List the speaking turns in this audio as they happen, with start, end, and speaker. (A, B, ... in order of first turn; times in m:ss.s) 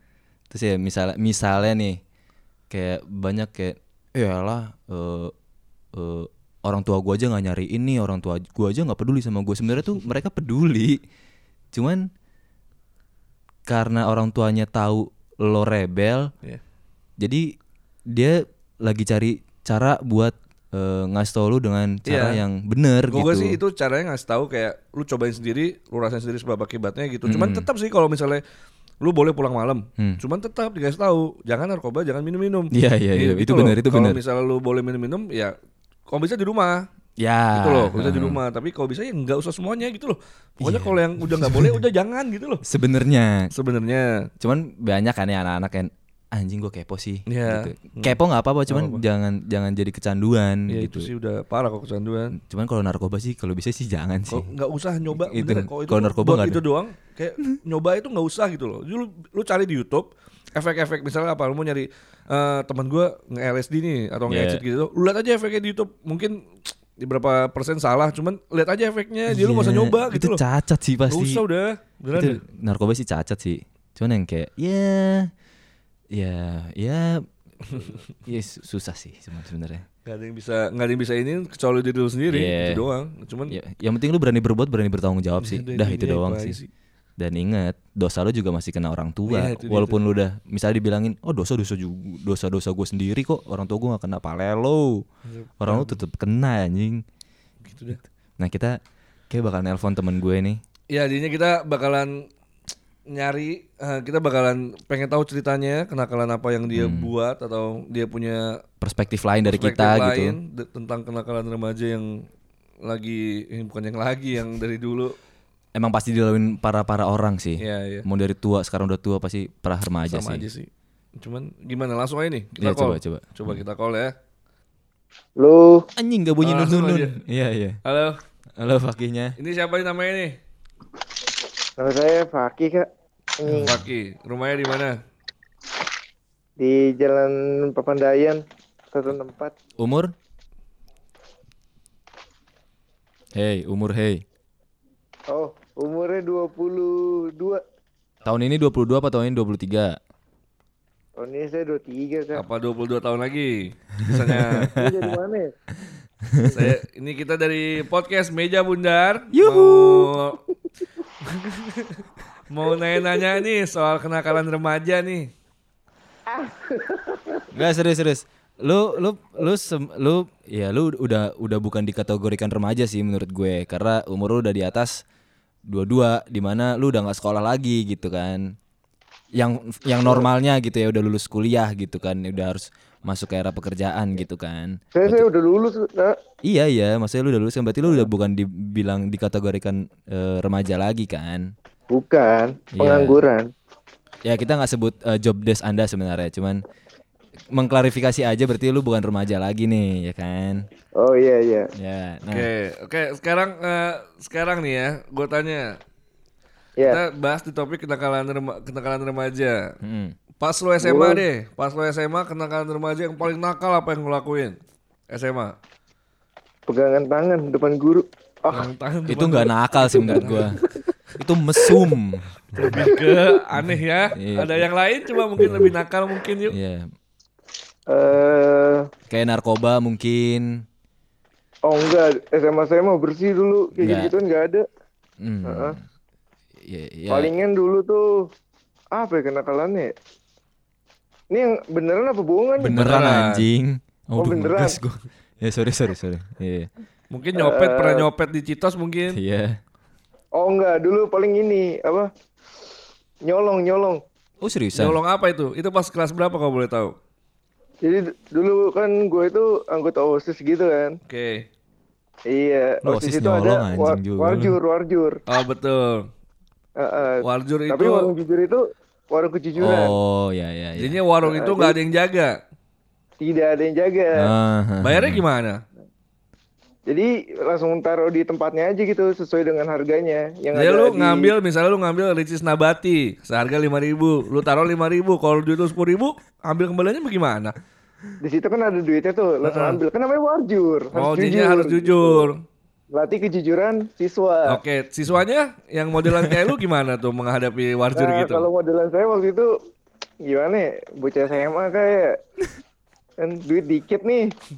0:00.5-0:02.0 A
0:02.7-0:05.3 A
0:05.9-0:11.0 A
0:11.7-0:12.1 A
0:13.7-0:16.3 A
0:17.2-0:17.4 A
0:18.1-0:23.6 A
0:22.1-0:22.4 B
0:23.1-0:28.4 B
0:27.2-0:27.7 A
0:29.0-0:35.5 B
0:32.7-0:34.2 A
0:36.1-0:36.8 B
0:37.2-0:38.4 A
0:37.5-0:42.6 B
0:40.6-0:41.8 A
0:42.6-0:43.5 A
0:43.5-0:44.3 B
0:44.4-0:51.1 A
0:47.3-0:49.0 B
0:50.7-0:52.4 B
0:52.4-0:54.5 A
0:54.3-1:10.4 B
0:55.1-0:56.6 A
1:04.3-1:04.6 A
1:09.3-1:11.4 A
1:11.1-1:12.4 B
1:12.1-1:15.3 A
1:16.1-1:19.8 A
1:17.7-1:18.0 B
1:20.0-1:23.6 B
1:22.3-1:22.8 A
1:23.5-1:26.6 A
1:25.4-1:26.7 B
1:27.2-1:35.0 A
1:29.3-1:30.0 B
1:35.3-1:36.0 B
1:35.6-1:37.0 A
1:37.6-1:38.0 B
1:38.4-1:38.8 A
1:39.3-1:40.6 A
1:40.9-1:42.2 B
1:43.1-1:48.6 B
1:46.7-1:47.1 A
1:48.8-1:50.4 A
1:49.4-1:52.2 B
1:52.8-1:55.2 B
1:55.7-2:00.4 A
1:57.6-1:58.0 B
2:00.1-2:04.1 B
2:02.6-2:03.6 A
2:05.4-2:05.8 C
2:06.0-2:07.8 A
2:06.4-2:07.2 B
2:07.8-2:08.2 B
2:08.6-2:09.4 A
2:09.4-2:10.4 B
2:11.8-2:12.9 C
2:13.4-2:13.8 C
2:13.5-2:13.8 A
2:13.6-2:15.0 B
2:16.6-2:19.6 C
2:19.8-2:20.1 A
2:23.3-2:24.2 A
2:25.3-2:27.6 C
2:28.2-2:30.0 A
2:31.2-2:32.4 C
2:32.3-2:34.7 B
2:34.0-2:35.0 A
2:34.7-2:35.5 C
2:36.2-2:36.7 A
2:36.5-2:40.4 B
2:39.3-2:40.1 A
2:41.2-2:45.3 B
2:46.3-2:47.5 C
2:47.5-2:55.0 A
2:55.7-2:58.5 A
2:59.3-3:05.2 A
3:04.9-3:06.2 C
3:06.4-3:11.5 A
3:11.9-3:13.5 C
3:12.8-3:13.2 A
3:14.2-3:16.6 A
3:17.5-3:20.6 A
3:21.0-3:21.7 C
3:21.8-3:22.5 A
3:22.3-3:25.8 B
3:26.8-3:29.7 B
3:29.8-3:30.2 A
3:30.4-3:34.6 B
3:30.8-3:31.2 C
3:35.1-3:35.5 B
3:36.7-3:38.7 C
3:38.5-3:40.6 B
3:39.1-3:40.6 A
3:39.9-3:40.4 C
3:41.2-3:42.9 A
3:42.5-3:46.6 B
3:42.6-3:43.3 C
3:44.1-3:44.7 A
3:45.4-3:45.7 A
3:46.5-3:46.9 A
3:47.9-3:48.9 C
3:49.1-3:50.5 A
3:51.7-3:54.6 C
3:53.8-3:54.1 A
3:55.2-3:55.8 A
3:55.4-3:55.8 C
3:56.6-3:57.3 A
3:57.1-3:58.1 C
3:58.9-3:59.9 C
4:01.3-4:02.8 C
4:02.6-4:06.7 A
4:02.7-4:03.4 B
4:04.2-4:04.8 C
4:07.1-4:09.2 B
4:07.4-4:08.1 C
4:09.1-4:09.6 A
4:10.4-4:12.1 C
4:13.2-4:14.0 C
4:14.4-4:15.0 A
4:14.7-4:16.9 B
4:17.8-4:21.0 C
4:21.1-4:21.4 B
4:22.3-4:25.2 C
4:22.8-4:24.5 A
4:25.3-4:26.1 B
4:26.8-4:29.9 C
4:27.2-4:28.1 B
4:29.6-4:31.0 A
4:30.8-4:32.3 B
4:31.2-4:31.8 C
4:33.2-4:34.3 C
4:34.2-4:35.2 A
4:34.8-4:35.6 B
4:36.9-4:41.3 C
4:40.5-4:47.6 B
4:48.2-4:52.3 C
4:49.4-4:49.8 B
4:50.9-4:52.4 B
4:52.9-4:54.6 C
4:54.5-4:58.4 B
4:58.0-4:59.5 C
5:00.2-5:02.2 C
5:03.2-5:04.3 C